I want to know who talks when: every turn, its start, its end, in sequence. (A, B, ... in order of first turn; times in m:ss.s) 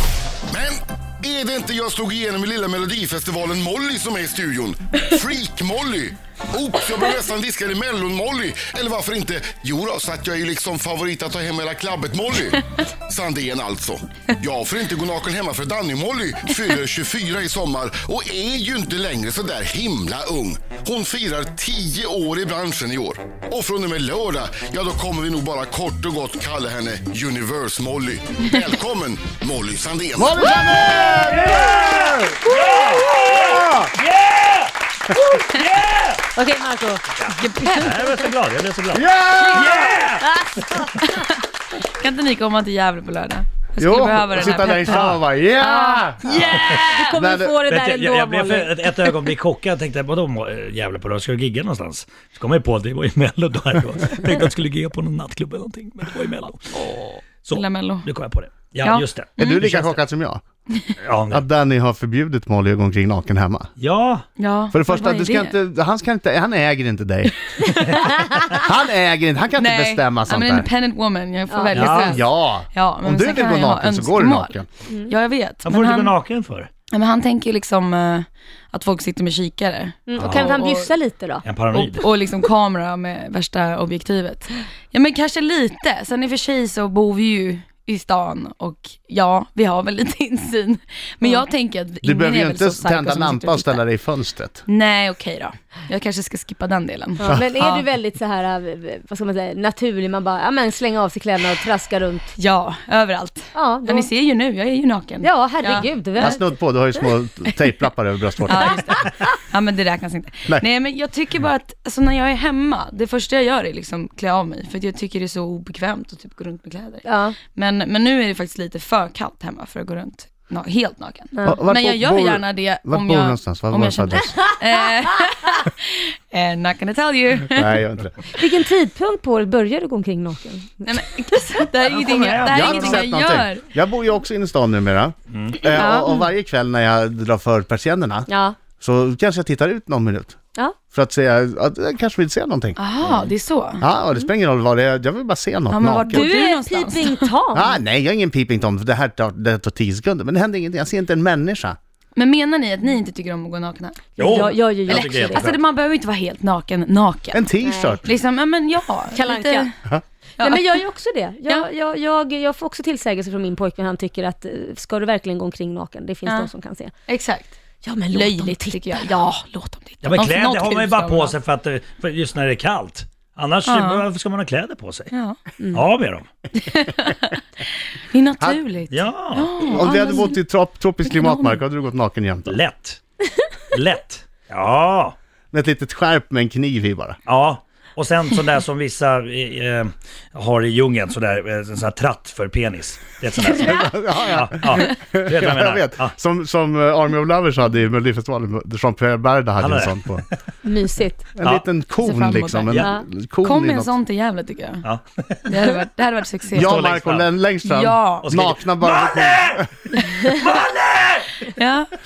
0:00.5-0:30.6 A
0:30.2-0:33.9 B
0:30.8-0:31.1 C
0:30.8-0:34.7 D
0:35.4-0:36.2 D
0:36.3-0:37.1 C
0:37.2-0:40.7 D
0:37.2-0:38.2 E
0:38.9-0:40.0 B
0:40.2-0:40.9 C
0:41.0-0:45.2 E
0:43.8-0:47.6 B
0:44.4-0:45.2 D
0:45.6-0:49.2 C
0:46.2-0:47.1 E
0:46.3-0:46.9 D
0:47.7-0:56.9 D
0:56.7-0:58.1 E
0:57.4-1:00.0 D
0:58.8-0:59.6 E
0:59.4-1:00.4 B
1:01.0-1:01.4 D
1:01.3-1:03.7 B
1:03.8-1:04.2 D
1:04.4-1:05.6 E
1:04.7-1:07.4 B
1:07.8-1:08.6 C
1:08.5-1:10.7 B
1:09.6-1:16.2 E
1:11.5-1:12.0 C
1:11.7-1:12.2 D
1:11.9-1:14.7 B
1:14.9-1:15.1 C
1:15.6-1:16.7 D
1:16.9-1:20.9 E
1:20.1-1:21.4 C
1:20.2-1:20.5 D
1:21.4-1:22.0 D
1:21.7-1:33.8 E
1:32.0-1:34.6 B
1:34.6-1:37.8 E
1:37.2-1:42.3 C
1:42.4-1:46.4 E
1:43.5-1:44.1 C
1:45.2-1:46.6 C
1:46.2-1:48.8 B
1:48.4-2:07.8 E
1:48.9-1:49.2 C
1:57.0-1:57.4 C
2:01.4-2:01.6 C
2:01.4-2:04.3 B
2:07.5-2:08.2 B
2:08.4-2:10.9 C
2:10.8-2:13.7 E
2:11.9-2:13.0 D
2:12.4-2:20.4 B
2:15.3-2:15.7 D
2:15.7-2:16.3 E
2:18.3-2:18.6 C
2:20.9-2:22.8 B
2:22.8-2:23.8 E
2:23.8-2:26.3 B
2:25.7-2:27.3 E
2:26.0-2:27.8 C
2:27.5-2:31.8 B
2:32.1-2:37.5 E
2:34.2-2:35.5 C
2:34.2-2:35.6 D
2:37.3-2:38.0 B
2:37.6-2:38.0 C
2:38.0-2:39.7 E
2:39.1-2:39.7 C
2:40.4-2:40.7 E
2:40.4-2:46.9 C
2:47.1-2:47.6 E
2:47.8-2:49.1 C
2:48.1-2:51.4 E
2:50.0-2:55.1 D
2:53.6-2:54.1 E
2:55.1-2:55.4 E
2:55.6-2:55.8 C
2:55.7-2:56.3 D
2:56.5-2:57.4 E
2:58.1-3:00.4 E
2:58.9-2:59.8 D
2:59.6-3:02.6 B
3:01.0-3:01.6 E
3:02.4-3:03.0 D
3:03.7-3:05.1 D
3:05.5-3:07.2 B
3:07.3-3:16.1 D
3:13.4-3:20.2 B
3:19.6-3:20.4 D
3:20.6-3:21.3 C
3:21.3-3:24.0 B
3:22.0-3:22.9 E
3:22.7-3:23.0 D
3:22.7-3:23.0 C
3:23.4-3:24.8 E
3:24.8-3:25.5 D
3:25.5-3:26.8 E
3:26.5-3:29.7 B
3:26.5-3:27.3 D
3:27.6-3:28.3 E
3:28.2-3:29.7 D
3:30.0-3:30.3 E
3:30.2-3:31.4 D
3:31.4-3:31.9 E